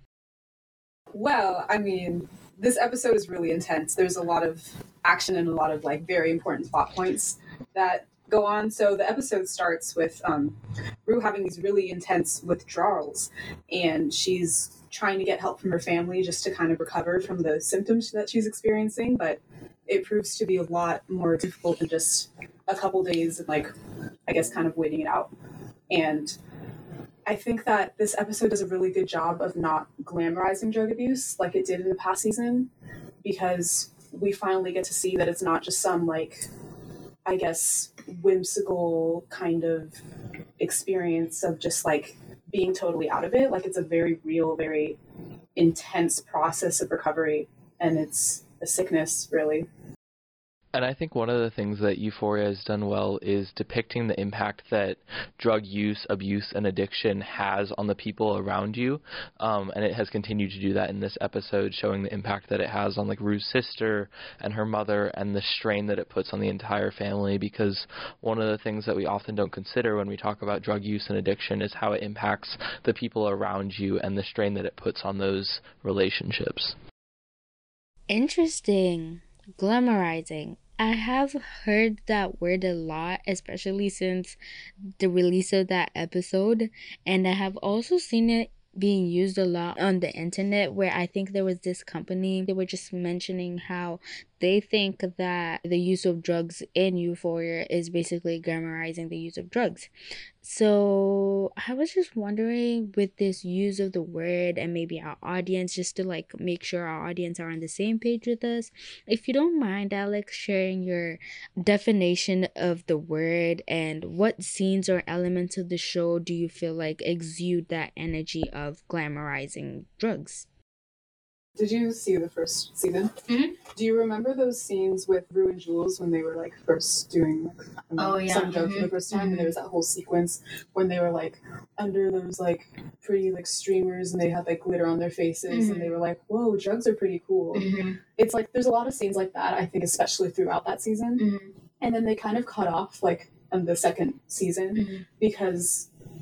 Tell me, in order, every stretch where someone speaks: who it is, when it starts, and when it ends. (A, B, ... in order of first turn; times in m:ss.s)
0:01.1-0:23.7 A
0:24.3-0:25.3 A
0:25.9-0:26.4 A
0:27.3-0:32.7 A
0:33.2-0:36.5 A
0:37.2-0:40.0 A
0:40.6-0:45.0 A
0:45.6-0:49.7 A
0:50.7-1:16.8 B
1:18.1-1:24.4 C
1:25.0-1:39.9 C
1:40.4-2:00.5 C
2:01.6-2:17.7 A
2:03.3-2:03.6 D
2:08.0-2:09.5 D
2:15.5-2:16.0 D
2:17.5-2:18.0 D
2:18.2-2:21.2 A
2:21.2-2:21.5 D
2:21.8-2:25.9 A
2:24.7-2:25.0 D